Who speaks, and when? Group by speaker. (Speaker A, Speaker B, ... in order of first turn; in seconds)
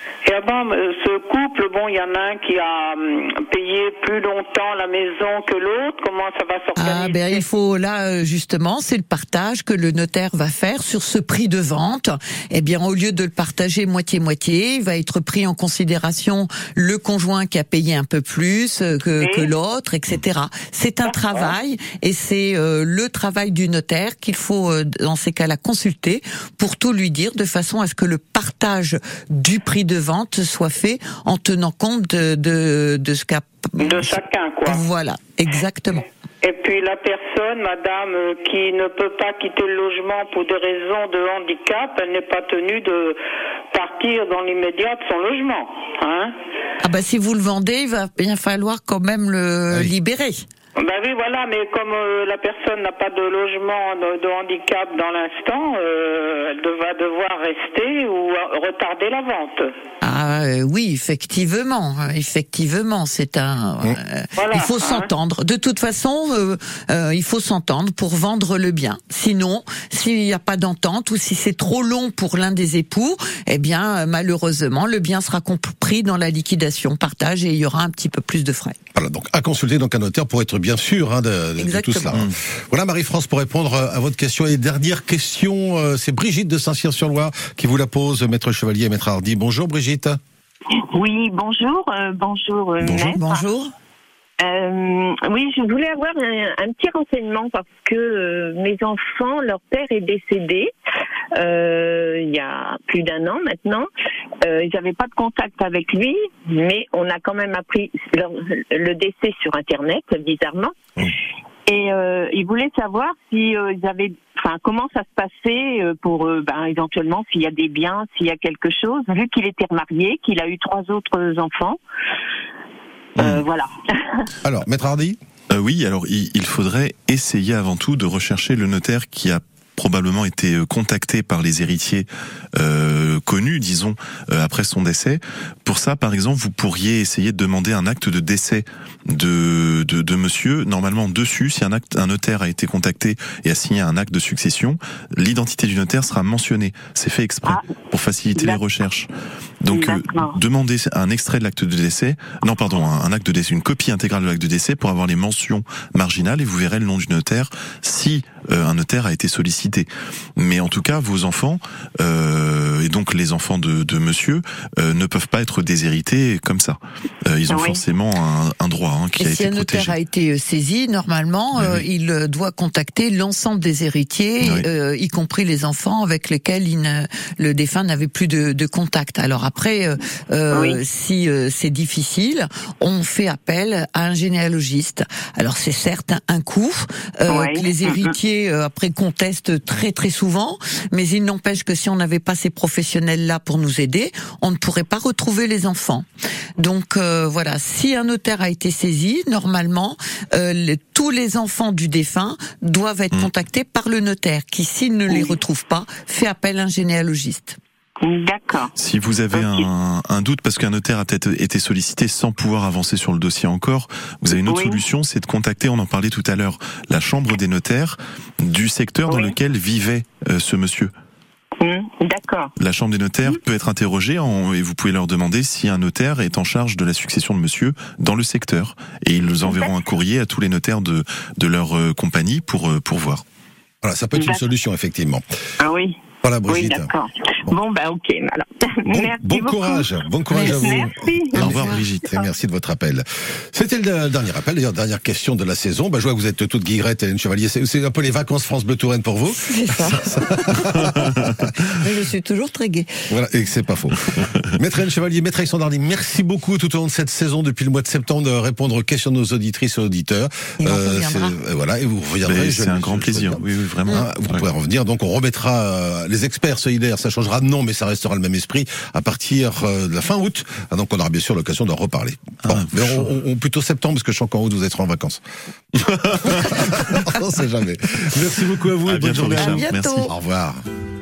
Speaker A: 0.2-7.4, 19.2-19.5, 21.0-21.5, 33.8-34.8, 36.4-43.2, 43.7-46.3, 50.8-59.7, 64.3-65.1
Speaker B: 6.8-36.0, 46.8-50.5, 60.0-78.8, 81.6-82.2, 92.9-93.7, 169.2-196.1, 196.6-207.6, 240.3-240.6, 241.5-241.8, 249.4-251.1, 251.7-252.9, 260.6-261.3, 279.1-280.1
Speaker C: 78.9-90.2, 92.8-93.1, 124.4-125.2, 233.8-235.2, 236.2-236.9, 238.9-251.5, 253.1-254.0, 254.5-275.2, 275.7-280.6
Speaker D: 90.9-93.4, 94.4-100.7, 101.3-103.9, 104.4-110.8, 111.7-121.8, 123.2-124.0, 148.3-148.6, 149.7-150.3, 167.5-167.8, 180.5-180.8, 187.3-188.1, 208.0-208.7, 209.3-209.7, 214.4-214.8, 219.1-219.3, 221.6-222.5, 229.4-229.8, 234.1-234.4, 235.6-241.6
Speaker E: 125.5-149.1, 149.6-169.9, 171.6-171.8, 208.8-220.9, 222.6-233.2, 241.3-242.0, 262.2-264.4, 272.5-273.1, 278.8-280.1